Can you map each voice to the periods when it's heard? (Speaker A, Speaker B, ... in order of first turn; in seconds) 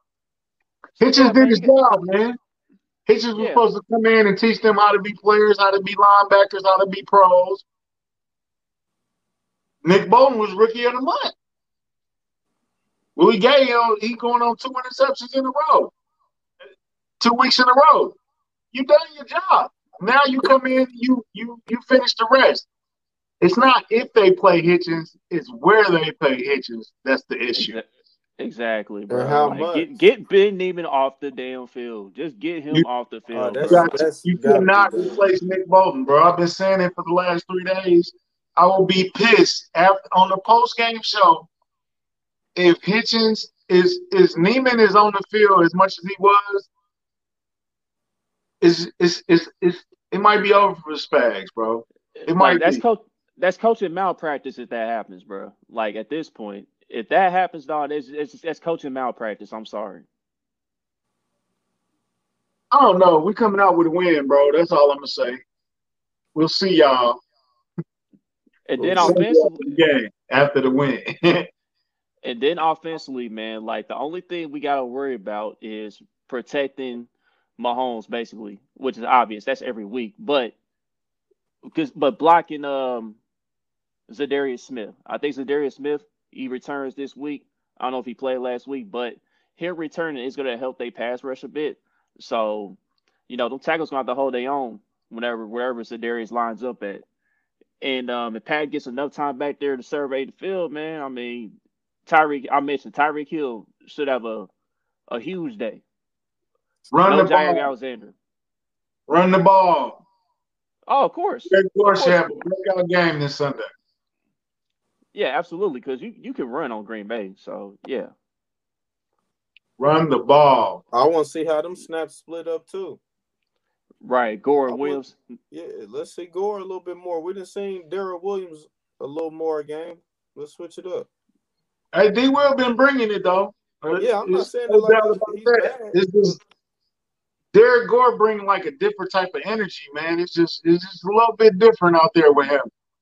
Speaker A: 1.0-2.4, 3.1-7.7, 9.8-11.3, 13.2-15.9, 17.2-18.2, 18.7-22.7, 23.4-27.8, 33.6-41.5, 42.6-46.7, 48.6-52.8, 62.7-65.4, 66.3-67.2, 69.0-71.5, 106.9-107.7, 109.1-110.0, 111.5-113.7, 119.8-120.8, 131.9-136.4, 137.5-142.7
Speaker B: 1.1-1.7, 3.4-3.6, 27.6-27.9, 28.4-33.9, 52.2-60.0, 68.7-69.8, 72.2-80.5, 81.7-83.2, 84.1-97.0, 97.8-101.5, 102.1-104.5, 105.1-105.8, 107.1-108.2, 110.9-112.5, 115.1-118.1, 124.0-125.2
Speaker C: 29.1-29.9, 33.3-35.2, 68.8-69.2, 120.9-123.0, 124.7-131.1, 134.0-136.0